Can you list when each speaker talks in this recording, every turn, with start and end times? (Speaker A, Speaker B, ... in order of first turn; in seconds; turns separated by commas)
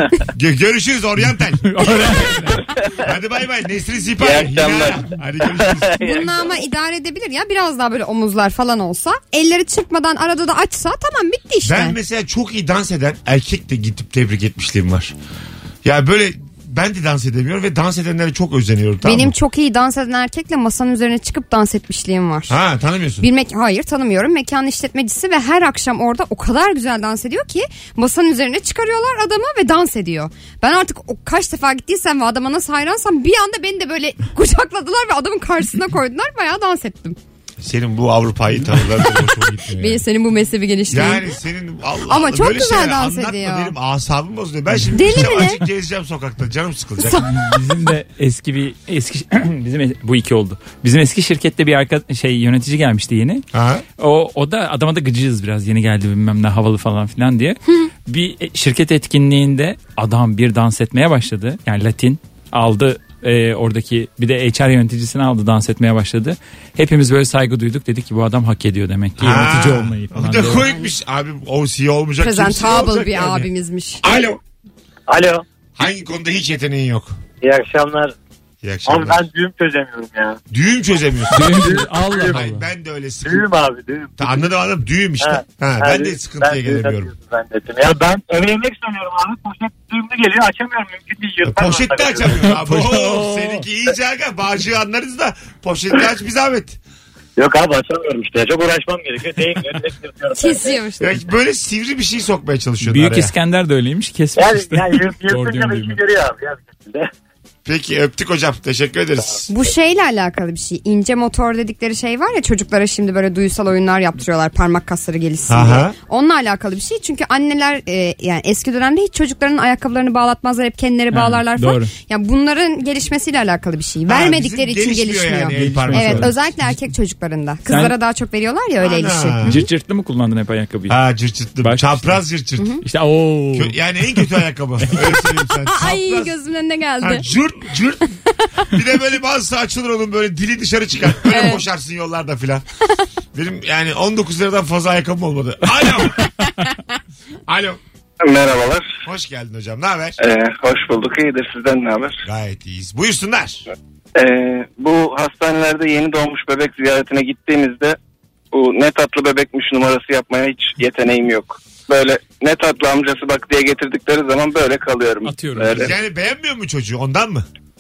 Speaker A: 0.3-6.0, Speaker B: 1.3-2.6, Speaker C: 4.3-4.6, Speaker D: 4.5-4.9, Speaker C: 5.7-6.5, Speaker E: 6.0-12.0, Speaker A: 11.7-15.2, Speaker A: 15.8-19.4, Speaker E: 19.0-22.6, Speaker A: 22.5-23.3, Speaker E: 23.2-37.2, Speaker A: 37.6-40.0, Speaker E: 39.8-41.3, Speaker A: 40.9-47.2, Speaker E: 42.1-43.7, Speaker E: 44.9-45.6, Speaker E: 47.0-47.6, Speaker B: 47.2-53.5, Speaker A: 53.5-53.8, Speaker B: 54.0-70.7, Speaker A: 69.2-73.5, Speaker E: 70.5-70.9, Speaker E: 72.2-74.0, Speaker A: 74.0-74.4, Speaker C: 75.1-75.4, Speaker A: 75.8-77.2, Speaker C: 77.4-78.1, Speaker A: 78.6-79.2, Speaker C: 78.9-80.4, Speaker A: 80.5-83.5, Speaker B: 81.3-82.7, Speaker C: 81.5-82.4, Speaker C: 83.2-84.5, Speaker A: 84.2-87.1, Speaker C: 85.2-92.5, Speaker A: 91.4-96.8, Speaker B: 92.4-93.6, Speaker C: 97.4-100.8, Speaker E: 100.4-101.2, Speaker A: 101.0-103.3, Speaker B: 102.8-106.0, Speaker C: 104.4-107.1, Speaker A: 107.7-109.5, Speaker E: 109.5-129.7, Speaker A: 115.5-116.0, Speaker B: 121.1-121.9, Speaker A: 124.1-126.3, Speaker B: 125.6-126.4, Speaker B: 127.7-128.0, Speaker A: 128.8-129.6, Speaker B: 129.4-131.0, Speaker A: 130.9-132.8, Speaker B: 131.6-132.2, Speaker B: 132.8-134.2, Speaker A: 133.6-136.4, Speaker E: 135.7-137.3, Speaker A: 137.0-138.2, Speaker A: 138.7-142.7, Speaker E: 141.3-141.6, Speaker A: 143.3-146.3, Speaker A: 147.5-147.8, Speaker D: 148.2-148.9, Speaker A: 149.0-150.2, Speaker D: 150.2-152.2, Speaker A: 152.2-153.7, Speaker D: 154.2-158.0, Speaker D: 158.5-165.9, Speaker B: 165.2-165.9, Speaker A: 165.7-167.5